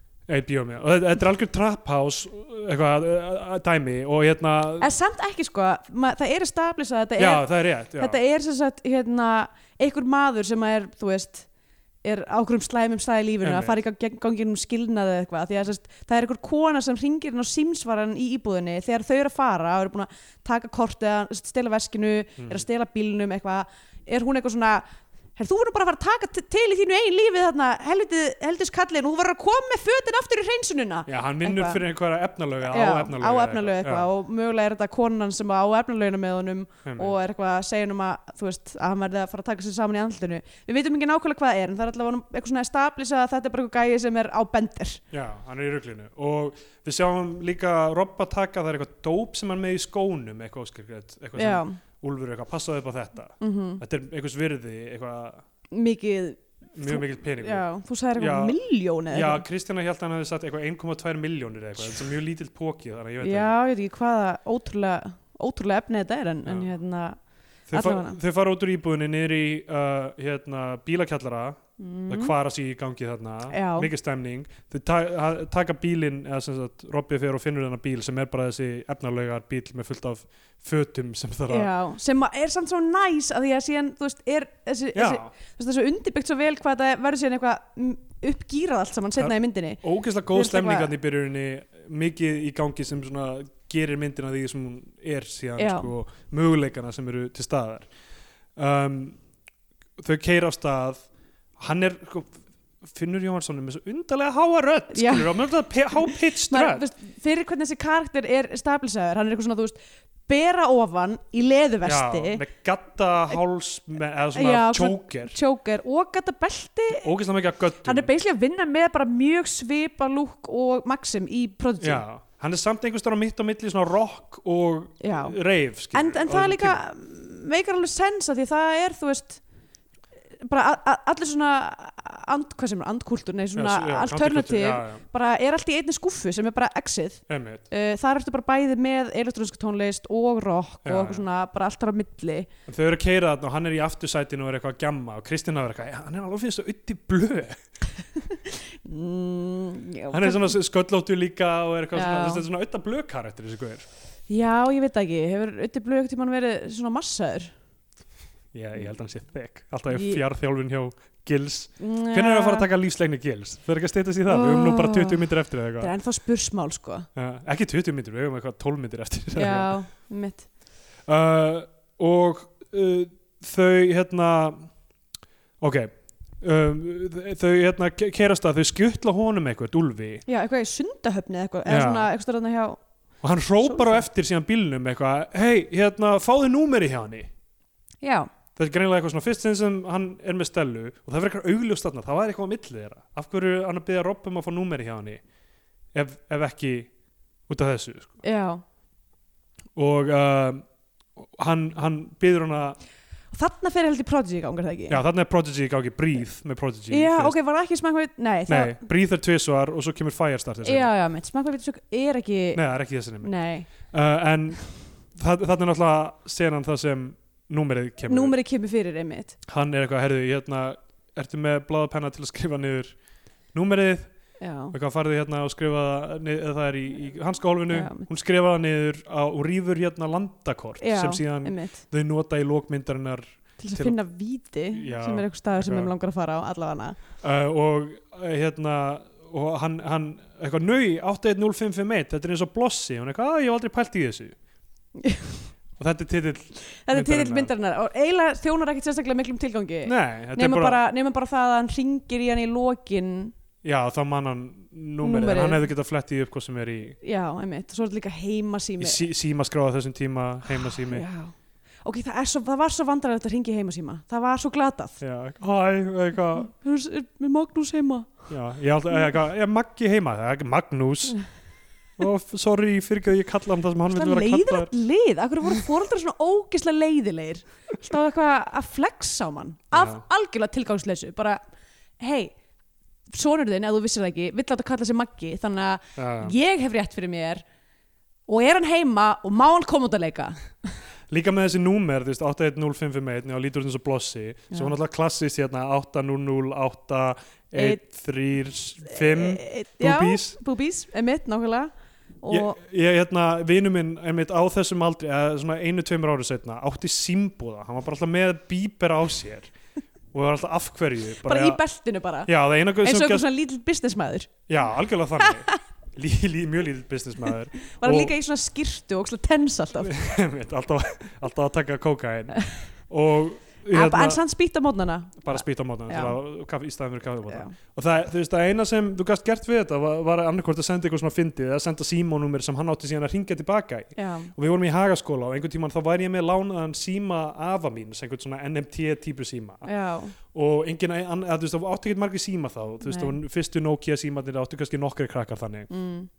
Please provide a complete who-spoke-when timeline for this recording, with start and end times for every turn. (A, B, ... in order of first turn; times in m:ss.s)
0:00.3-0:04.9 A
0:04.8-0:11.5 B
0:07.2-0:08.2 A
0:12.0-0:24.8 B
0:13.4-0:13.8 A
0:22.4-0:22.6 A
0:25.4-0:31.8 B
0:31.1-0:34.1 A
0:32.7-0:45.0 B
0:36.8-0:37.2 A
0:45.1-0:55.4 A
0:51.4-0:51.8 B
0:53.4-0:53.8 B
0:55.7-0:59.4 B
0:56.7-0:58.6 A
0:59.1-1:03.6 A
1:03.2-1:07.2 B
1:06.4-1:06.7 A
1:07.7-1:21.7 A
1:07.7-1:08.2 B
1:11.8-1:12.3 B
1:13.5-1:13.9 B
1:21.5-1:30.9 B
1:24.9-1:25.3 A
1:29.2-1:37.9 A
1:35.6-1:35.9 B
1:38.6-1:39.2 A
1:40.0-1:41.0 A
1:41.6-1:46.8 A
1:44.9-1:45.4 B
1:46.1-1:52.4 B
1:51.8-1:55.4 A
1:54.3-1:57.1 B
1:56.9-1:58.1 A
1:57.8-2:02.0 B
2:01.8-2:06.8 A
2:05.0-2:05.4 B
2:05.9-2:09.4 B
2:10.4-2:22.5 B
2:13.5-2:15.0 A
2:17.3-2:17.6 A
2:20.8-2:21.2 A
2:22.7-2:27.6 A
2:28.3-2:30.6 B
2:30.1-2:33.8 A
2:31.9-2:32.4 B
2:34.3-2:37.5 B
2:38.5-2:45.9 A
2:39.9-2:40.2 B
2:41.8-2:42.7 B
2:44.3-2:45.2 B
2:45.8-2:47.1 B
2:47.1-2:49.7 A
2:49.3-2:50.5 B
2:51.0-2:54.7 A
2:55.6-3:00.2 A
3:00.2-3:02.8 B
3:01.7-3:02.1 A
3:03.2-3:07.3 A
3:03.6-3:04.1 B
3:08.0-3:08.3 B
3:08.6-3:15.2 A
3:15.9-3:16.9 A
3:17.5-3:18.2 A
3:18.2-3:18.6 B
3:19.8-3:20.6 A
3:21.2-3:22.8 A
3:23.3-3:25.0 B
3:24.9-3:27.4 A
3:26.9-3:28.8 B
3:28.5-3:30.9 A
3:30.6-3:32.6 B
3:32.5-3:33.3 A
3:33.2-3:33.7 B
3:33.8-3:38.3 A
3:38.1-3:39.3 B
3:39.4-3:42.9 A
3:43.5-3:44.1 A
3:44.4-3:44.7 B
3:44.7-3:54.0 A
3:47.7-3:48.1 B
3:50.8-3:51.8 B
3:53.6-3:57.0 B
3:54.7-3:55.9 A
3:57.2-4:04.4 A
4:05.0-4:05.5 B
4:05.8-4:07.5 A
4:06.7-4:13.3 B
4:09.8-4:10.8 A
4:13.6-4:17.0 A
4:15.0-4:15.7 B
4:17.0-4:19.0 B
4:18.8-4:21.0 A
4:20.6-4:25.0 B
4:25.0-4:26.5 A
4:26.4-4:28.3 B
4:28.3-4:31.2 A
4:32.0-4:34.7 A
4:33.9-4:41.4 B
4:39.7-4:40.0 A
4:42.0-4:42.4 B
4:43.1-4:47.4 B
4:46.0-4:46.3 A
4:48.3-4:50.5 B
4:51.1-5:00.4 A
4:57.5-4:57.8 B
4:58.9-5:01.7 B
5:02.2-5:02.6 B
5:02.3-5:09.5 A
5:10.1-5:11.6 A
5:11.2-5:14.3 B
5:12.2-5:13.3 A
5:14.5-5:18.1 A
5:15.2-5:15.6 B
5:17.6-5:20.0 B
5:19.8-5:24.2 A
5:22.3-5:22.7 B
5:23.7-5:26.2 B
5:25.2-5:39.7 A
5:27.3-5:27.5 B
5:34.0-5:34.3 B
5:39.6-5:40.2 B
5:40.3-5:45.7 A
5:42.8-5:43.2 B
5:45.7-5:46.1 B